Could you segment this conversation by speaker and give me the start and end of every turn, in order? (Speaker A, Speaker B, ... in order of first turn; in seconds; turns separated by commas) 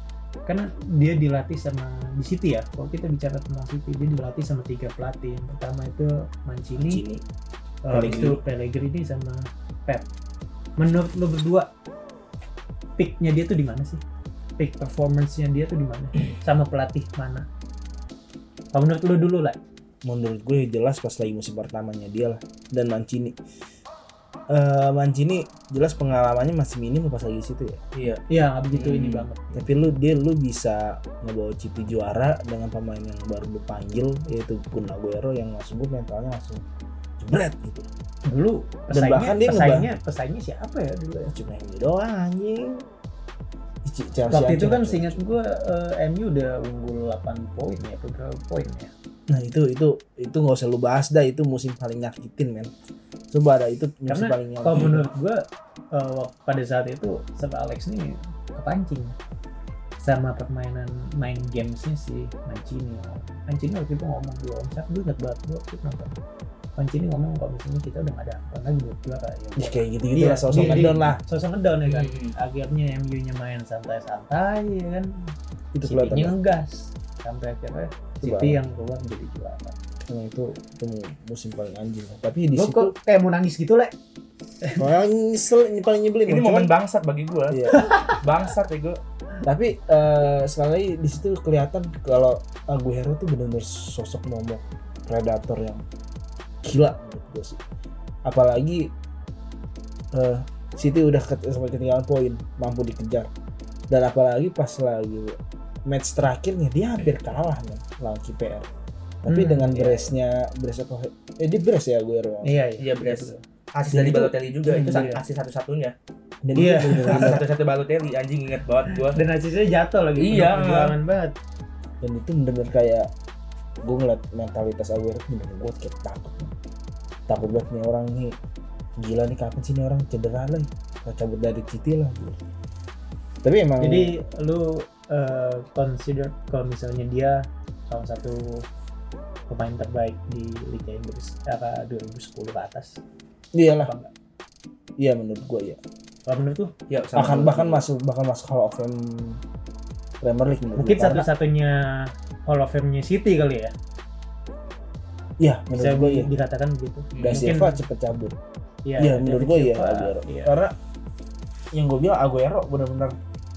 Speaker A: 0.5-7.0, Speaker B: 6.8-7.2, Speaker A: 7.8-10.1, Speaker B: 7.9-8.4, Speaker A: 10.8-11.7, Speaker A: 13.0-14.0, Speaker A: 14.6-17.5, Speaker A: 18.7-19.6, Speaker B: 20.0-23.4, Speaker B: 24.5-27.8, Speaker C: 27.9-29.3, Speaker A: 28.3-29.6, Speaker B: 29.5-36.6, Speaker B: 37.2-37.9, Speaker A: 38.2-41.3, Speaker B: 38.9-39.9, Speaker B: 41.3-42.8, Speaker B: 43.8-45.2, Speaker A: 44.3-48.9, Speaker B: 49.3-52.7, Speaker B: 53.3-55.0, Speaker A: 54.1-59.1, Speaker A: 60.0-66.1, Speaker A: 66.8-79.7, Speaker B: 69.6-71.2, Speaker C: 71.8-72.3, Speaker B: 75.7-76.4, Speaker B: 78.2-78.6, Speaker B: 80.1-82.9, Speaker A: 82.5-83.9, Speaker B: 84.7-86.7, Speaker C: 86.2-89.0, Speaker B: 87.5-88.0, Speaker A: 87.7-88.2, Speaker B: 89.4-95.8, Speaker B: 96.6-97.6, Speaker B: 98.2-98.9, Speaker B: 100.1-103.3, Speaker B: 103.9-108.7, Speaker B: 109.2-112.5, Speaker A: 109.3-110.1, Speaker A: 112.4-113.4, Speaker C: 112.8-115.9, Speaker B: 113.9-115.1, Speaker A: 114.7-115.2, Speaker B: 116.4-117.4, Speaker A: 116.5-117.5, Speaker C: 117.0-119.2, Speaker A: 119.0-121.3, Speaker C: 120.2-121.0, Speaker B: 122.0-123.1, Speaker B: 123.8-126.5, Speaker B: 127.3-128.4, Speaker B: 129.0-132.4, Speaker B: 133.4-134.2, Speaker A: 133.8-138.7, Speaker A: 139.5-143.0, Speaker B: 143.5-143.9, Speaker A: 143.8-144.1, Speaker B: 145.0-145.8, Speaker A: 146.3-146.7, Speaker C: 146.9-147.9, Speaker B: 147.1-149.4, Speaker B: 150.2-151.3, Speaker A: 150.7-153.7, Speaker B: 155.4-156.3, Speaker A: 155.7-157.8, Speaker C: 157.1-157.5, Speaker B: 157.2-158.3, Speaker A: 158.8-160.5, Speaker B: 159.0-160.7, Speaker B: 161.7-163.1